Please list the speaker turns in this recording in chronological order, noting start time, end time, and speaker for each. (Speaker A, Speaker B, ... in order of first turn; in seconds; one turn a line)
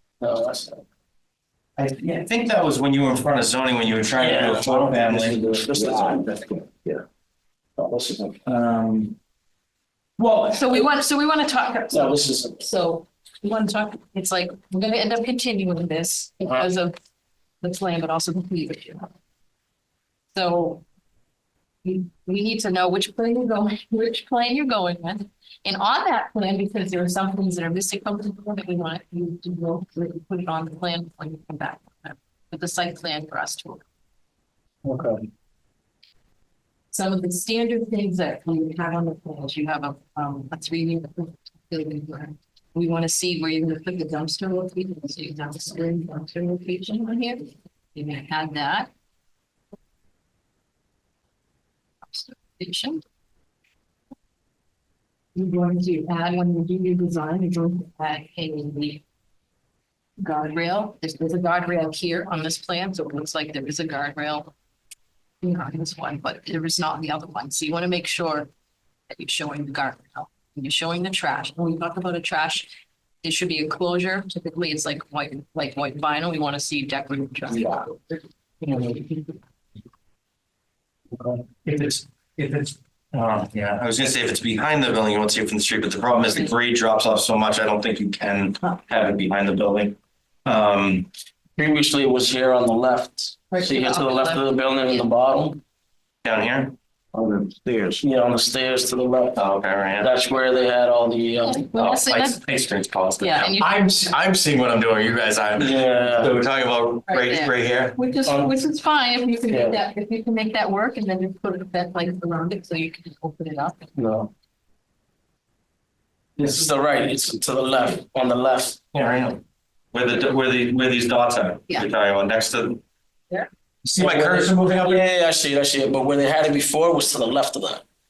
Speaker A: 0.2-0.8
Speaker B: 1.8-5.4
Speaker A: 4.2-6.3
Speaker C: 5.7-7.0
Speaker A: 7.8-8.4
Speaker B: 8.4-9.2
Speaker B: 10.2-10.7
Speaker D: 10.5-16.9
Speaker A: 11.9-12.6
Speaker D: 17.6-19.1
Speaker D: 20.3-20.8
Speaker D: 21.8-33.8
Speaker A: 34.8-35.2
Speaker D: 36.9-48.9
Speaker D: 52.0-53.0
Speaker D: 55.3-59.0
Speaker D: 60.2-64.5
Speaker D: 65.4-68.5
Speaker D: 69.1-72.7
Speaker D: 73.2-79.3
Speaker B: 81.1-91.1
Speaker A: 91.6-95.6
Speaker D: 93.5-95.0
Speaker B: 96.2-96.7
Speaker C: 97.1-98.0
Speaker A: 98.0-99.4
Speaker B: 99.3-100.1
Speaker A: 100.0-102.0
Speaker D: 101.4-102.4
Speaker B: 101.9-108.0
Speaker D: 103.2-103.7
Speaker A: 105.6-106.3
Speaker D: 107.1-113.9
Speaker A: 108.2-108.5
Speaker A: 109.5-109.8
Speaker A: 114.0-114.3
Speaker A: 116.4-118.8
Speaker B: 118.9-119.4
Speaker B: 119.9-122.8
Speaker B: 123.8-125.0
Speaker A: 124.0-127.8